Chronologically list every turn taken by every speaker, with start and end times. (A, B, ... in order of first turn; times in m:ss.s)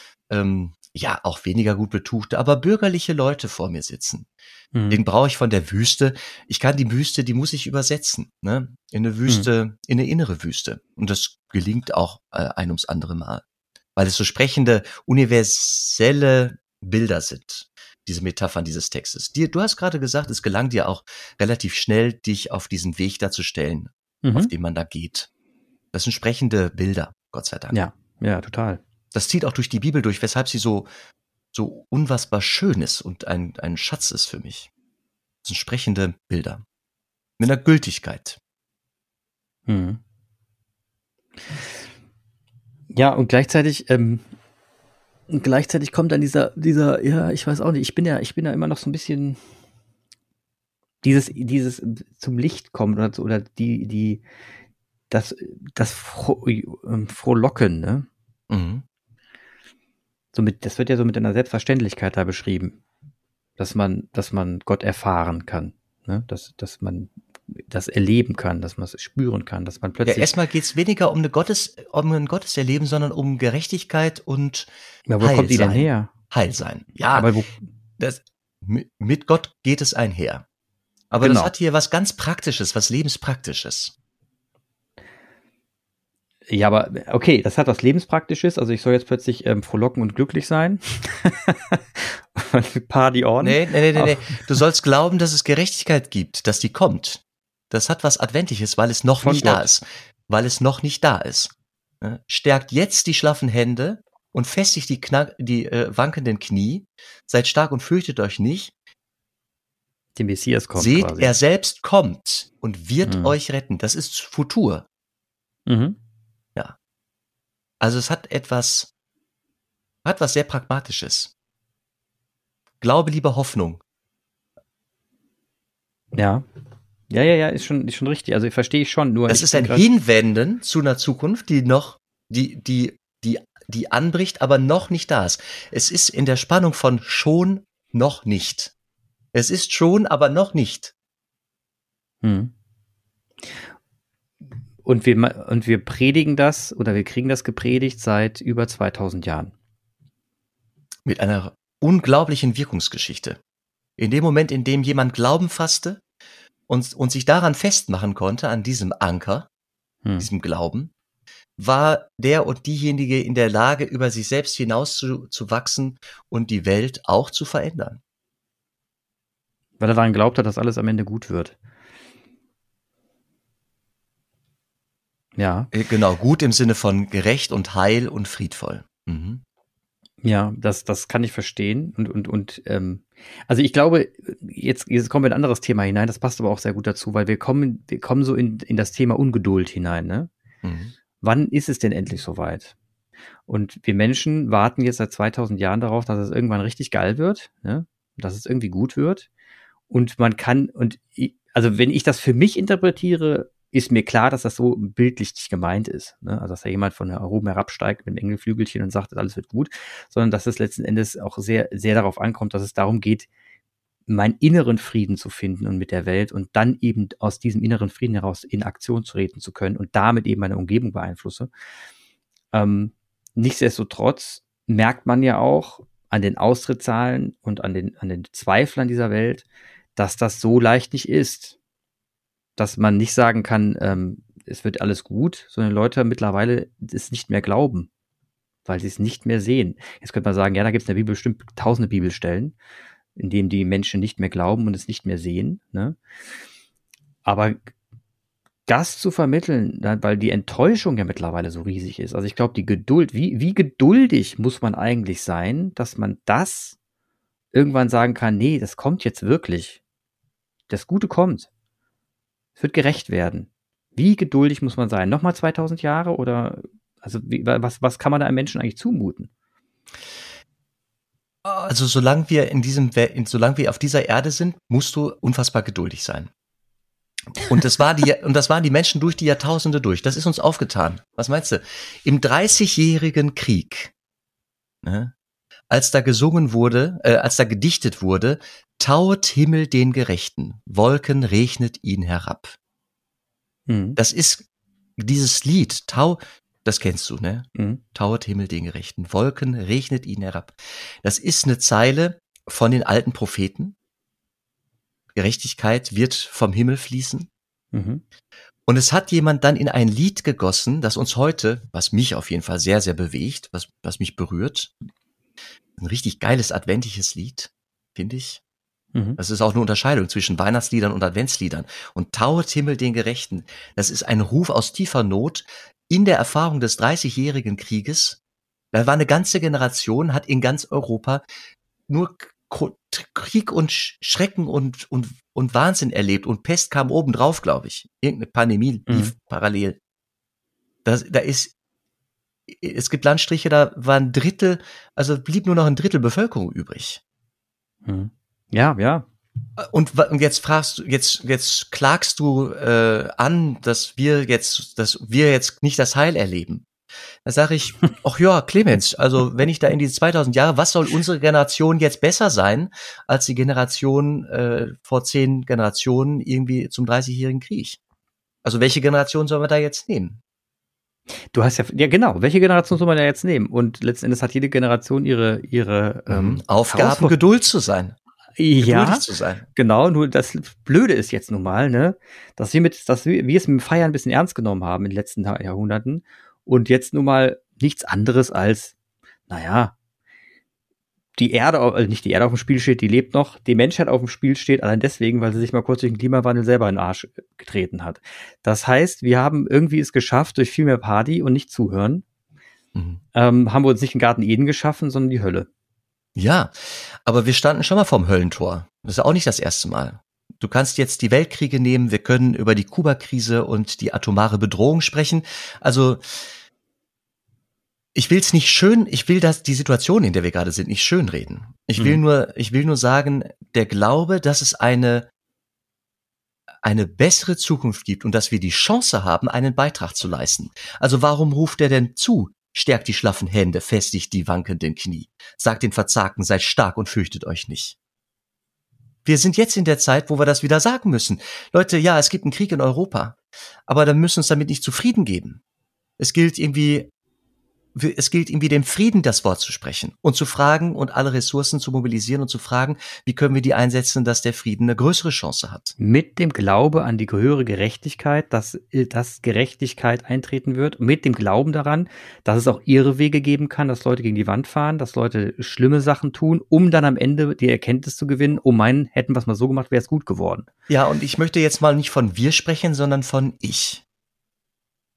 0:00.3-0:04.3 A
0:04.7-0:05.0 B
0:04.9-0:13.4 A
0:14.0-0:25.3 A
0:24.2-0:24.5 B
0:25.9-0:27.8 A
0:27.7-0:28.8 B
0:29.1-0:30.9 A
0:31.5-0:34.7 A
0:35.4-0:36.6 A
0:37.4-0:38.4 A
0:39.7-0:40.0 B
0:42.9-0:44.2 B
0:45.3-0:49.4 B
0:51.0-0:54.2 B
0:55.1-0:58.1 B
0:58.5-0:58.8 A
1:00.3-1:02.8 B
1:03.6-1:10.3 B
1:10.0-1:14.7 A
1:15.1-1:16.1 B
1:15.2-1:17.3 A
1:17.1-1:17.5 B
1:18.0-1:20.4 A
1:21.1-1:23.9 A
1:21.2-1:21.5 B
1:26.5-1:34.6 B
1:33.4-1:48.7 A
1:39.2-1:39.7 B
1:50.2-1:51.3 B
1:50.7-1:54.9 A
1:53.0-1:53.3 B
1:55.7-1:56.0 B
1:57.8-1:58.9 A
2:00.0-2:01.3 A
2:02.8-2:03.8 A
2:06.1-2:06.4 B
2:07.1-2:09.9 B
2:09.3-2:18.7 A
2:19.3-2:20.9 A
2:22.2-2:22.5 B
2:24.8-2:29.5 B
2:31.1-2:33.4 A
2:34.0-2:36.0 A
2:36.7-2:39.5 A
2:40.2-2:40.9 A
2:41.6-2:48.0 A
2:49.8-2:51.6 B
2:55.4-2:55.7 B
2:55.7-2:59.4 A
3:00.2-3:10.3 B
3:10.6-3:10.9 A
3:11.2-3:12.7 B
3:13.5-3:19.3 B
3:19.9-3:33.3 B
3:34.1-3:41.5 B
3:42.5-3:49.4 B
3:50.0-3:51.6 B
3:52.6-3:57.9 B
3:58.7-4:02.6 B
4:03.2-4:06.0 B
4:07.2-4:07.7 B
4:08.7-4:16.8 B
4:17.5-4:19.8 B
4:20.7-4:21.5 B
4:22.6-4:29.3 B
4:31.4-4:36.3 A
4:37.4-4:43.9 A
4:44.8-4:45.1 A
4:45.7-4:52.6 A
4:53.7-4:54.0 B
4:54.0-4:54.4 A
4:55.0-5:03.8 A
4:57.6-4:57.8 B
5:05.2-5:07.3 A
5:07.7-5:08.0 B
5:08.7-5:14.8 A
5:15.8-5:18.4 A
5:19.2-5:28.2 A
5:28.7-5:31.2 A
5:31.9-5:39.8 A
5:38.9-5:39.1 B
5:40.8-5:41.5 A
5:42.5-5:47.0 A
5:47.8-5:49.1 B
5:49.6-5:56.7 A
5:57.2-6:07.8 A
6:08.4-6:10.2 A
6:11.3-6:17.2 B
6:16.1-6:18.0 A
6:18.4-6:28.7 B
6:18.6-6:19.4 A
6:29.3-6:29.7 B
6:31.2-6:42.0 B
6:42.8-6:43.0 A
6:43.1-6:45.5 B
6:46.2-6:56.2 A
6:58.0-7:05.1 A
7:01.8-7:02.0 B
7:06.6-7:17.8 A
7:19.0-7:25.4 A
7:26.0-7:26.9 A
7:27.8-7:35.7 A
7:35.8-7:50.5 B
7:50.7-7:53.8 A